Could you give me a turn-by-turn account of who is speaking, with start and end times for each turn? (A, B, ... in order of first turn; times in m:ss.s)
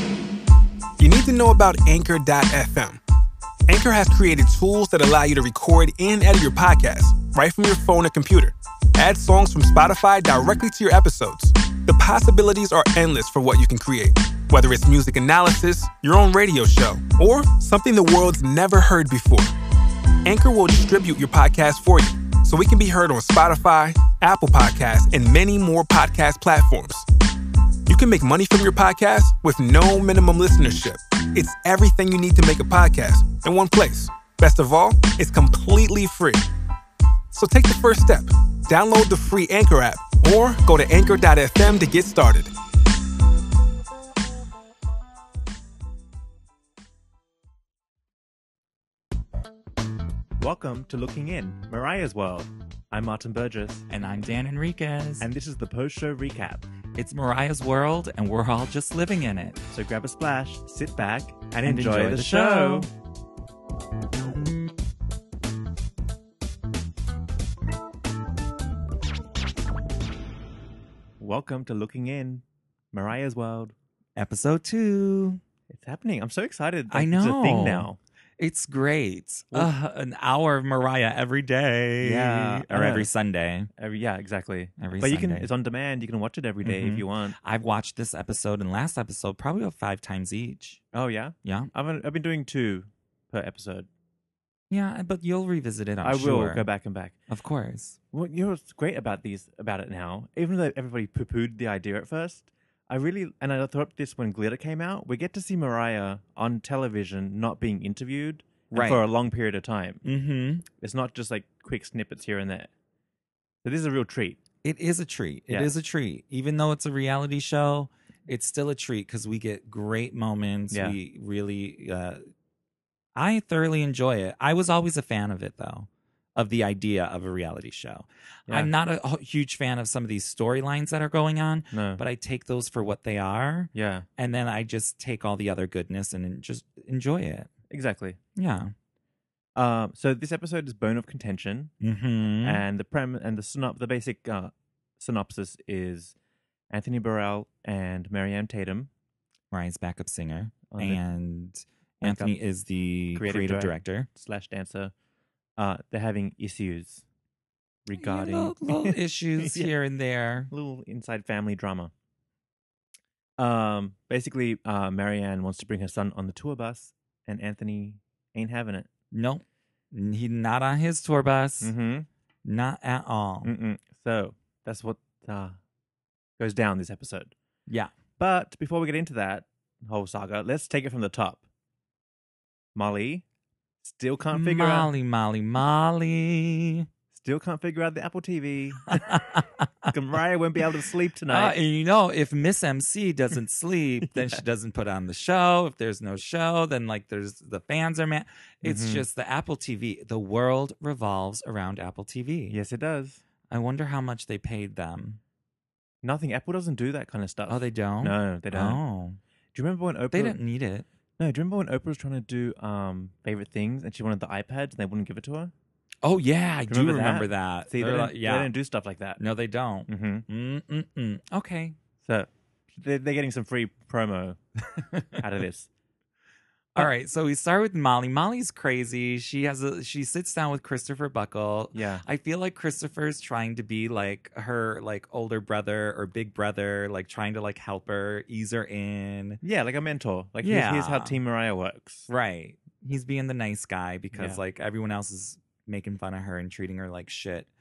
0:01.0-0:03.0 A
0:03.7-0:19.5 A
0:20.2-0:27.1 A
0:27.9-0:36.5 A
0:37.3-0:42.5 A
0:50.4-0:53.9 B
0:53.9-0:55.3 C
0:55.2-0:56.7 B
0:57.0-0:59.6 C
0:59.7-1:02.9 B
1:01.6-1:02.9 C
1:11.2-1:13.8 B
1:14.2-1:15.4 C
1:15.7-1:18.0 B
1:16.9-1:23.7 C
1:22.0-1:23.1 B
1:23.8-1:27.4 B
1:24.8-1:25.5 C
1:26.6-1:30.8 C
1:30.9-1:33.9 B
1:31.4-1:31.7 C
1:34.7-1:36.7 C
1:36.0-1:37.2 B
1:37.3-1:38.0 C
1:38.1-1:50.0 B
1:48.7-1:49.0 C
1:50.0-1:50.7 C
1:50.8-1:52.7 B
1:53.6-1:54.4 B
1:54.6-2:02.2 C
2:00.7-2:01.0 B
2:03.2-2:17.5 C
2:11.7-2:12.0 B
2:13.7-2:14.1 B
2:17.7-2:18.2 B
2:18.4-2:18.7 C
2:19.6-2:21.7 B
2:21.8-2:22.6 C
2:22.4-2:26.2 B
2:26.7-2:28.9 B
2:29.5-2:34.1 C
2:30.7-2:31.0 B
2:32.0-2:32.4 B
2:33.2-2:34.9 B
2:35.6-2:37.0 B
2:37.9-2:39.7 B
2:38.0-2:40.5 C
2:40.5-2:41.9 B
2:43.4-2:48.9 B
2:49.1-2:51.7 C
2:51.6-2:52.1 B
2:52.4-2:53.5 C
2:53.4-2:55.6 B
2:56.4-2:57.3 B
2:58.2-3:01.4 B
3:02.8-3:03.2 B
3:03.8-3:04.9 B
3:04.3-3:06.9 C
3:07.1-3:09.2 B
3:08.9-3:09.9 C
3:09.9-3:11.6 B
3:11.3-3:22.6 C
3:18.6-3:19.1 B
3:22.5-3:23.2 B
3:23.5-3:25.2 C
3:26.0-3:28.8 B
3:27.5-3:29.2 C
3:29.5-3:30.4 B
3:30.1-3:30.9 C
3:31.2-3:35.5 B
3:36.0-3:38.5 C
3:36.7-3:39.2 B
3:39.2-3:41.8 C
3:39.9-3:40.3 B
3:42.0-3:44.4 B
3:44.8-3:45.0 C
3:45.1-3:45.7 B
3:46.8-3:59.4 C
3:51.7-3:52.0 B
3:59.4-4:02.1 B
4:00.4-4:01.2 C
4:02.1-4:07.5 C
4:04.1-4:04.4 B